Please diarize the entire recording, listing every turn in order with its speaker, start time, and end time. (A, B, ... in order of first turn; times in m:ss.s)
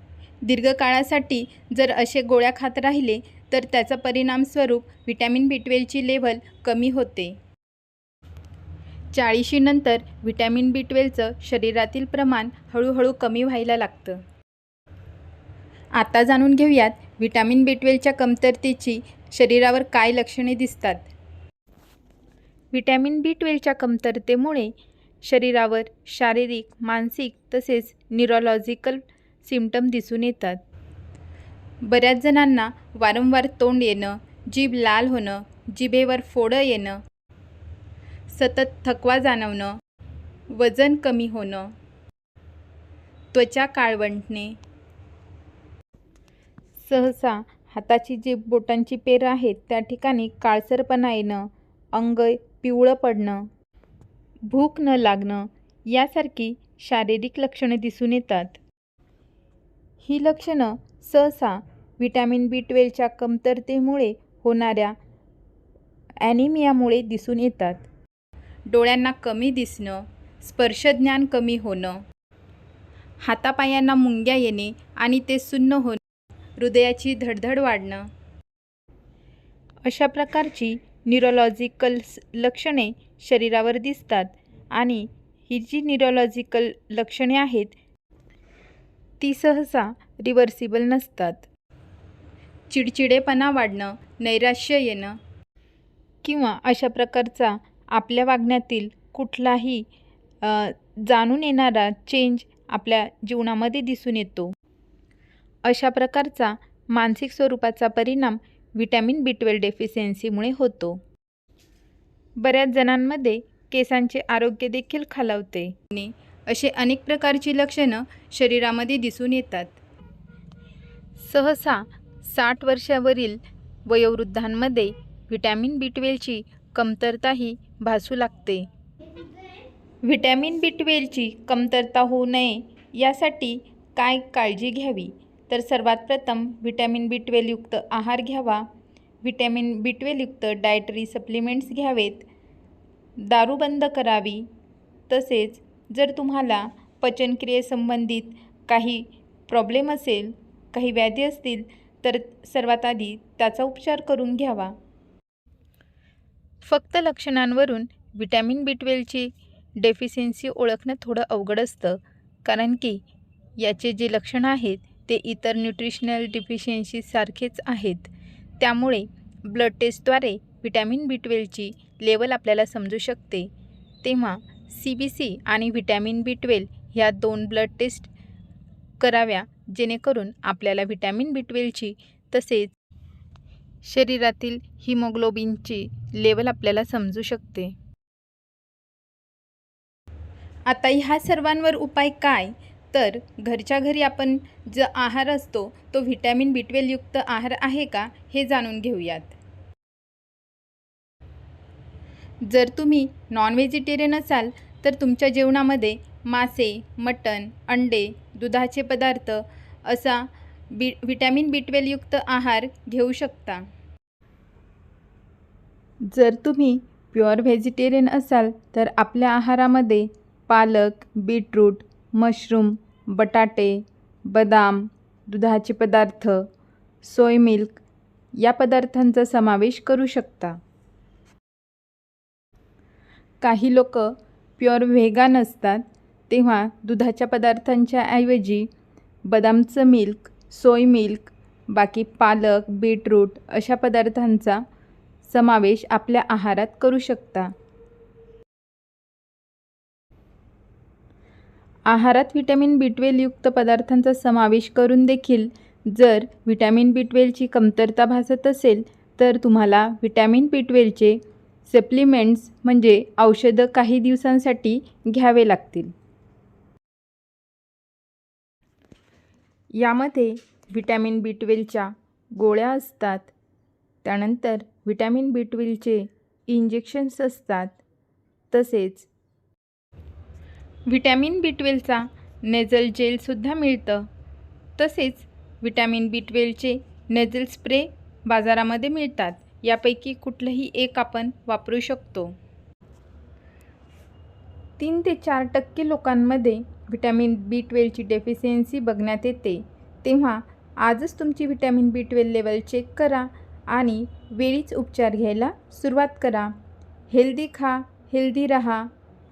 0:00.4-0:07.4 A
0:09.1-0:14.2 A
0:16.0-0:21.1 A
0:22.7-0:30.6 A
0:31.8-0:37.0 A
0:38.3-0:39.8 A
0:40.5-0:41.7 A
0:43.3-0:44.6 A
0:46.8-0:53.5 A
0:54.5-0:58.6 A
1:00.0-1:05.0 A
1:06.2-1:07.8 A
1:08.7-1:12.0 A
1:13.2-1:16.0 A
1:16.6-1:18.0 A
1:19.8-1:27.8 A
1:29.2-1:31.5 A
1:32.7-1:35.2 A
1:36.2-1:39.8 A
1:40.4-1:44.5 A
1:45.6-1:51.0 A
1:52.4-1:59.8 A
2:01.2-2:08.7 A
2:10.0-2:18.6 A
2:19.2-2:22.3 A
2:23.2-2:24.5 A
2:25.1-2:34.7 A
2:36.6-2:43.0 A
2:43.6-2:53.5 A
2:54.0-2:58.1 A
2:59.0-3:02.7 A
3:03.8-3:07.7 A
3:10.7-3:19.4 A
3:22.4-3:33.6 A
3:36.0-3:46.5 A
3:47.0-3:47.8 A
3:48.4-3:50.6 A
3:53.4-3:58.7 A
3:59.2-4:04.6 A
4:05.2-4:07.5 A
4:11.9-4:25.9 A
4:29.8-4:33.3 A
4:34.0-4:37.8 A
4:38.5-4:39.1 A
4:40.9-4:44.1 A
4:44.8-4:52.4 A
4:54.8-5:06.5 A
5:07.1-5:08.9 A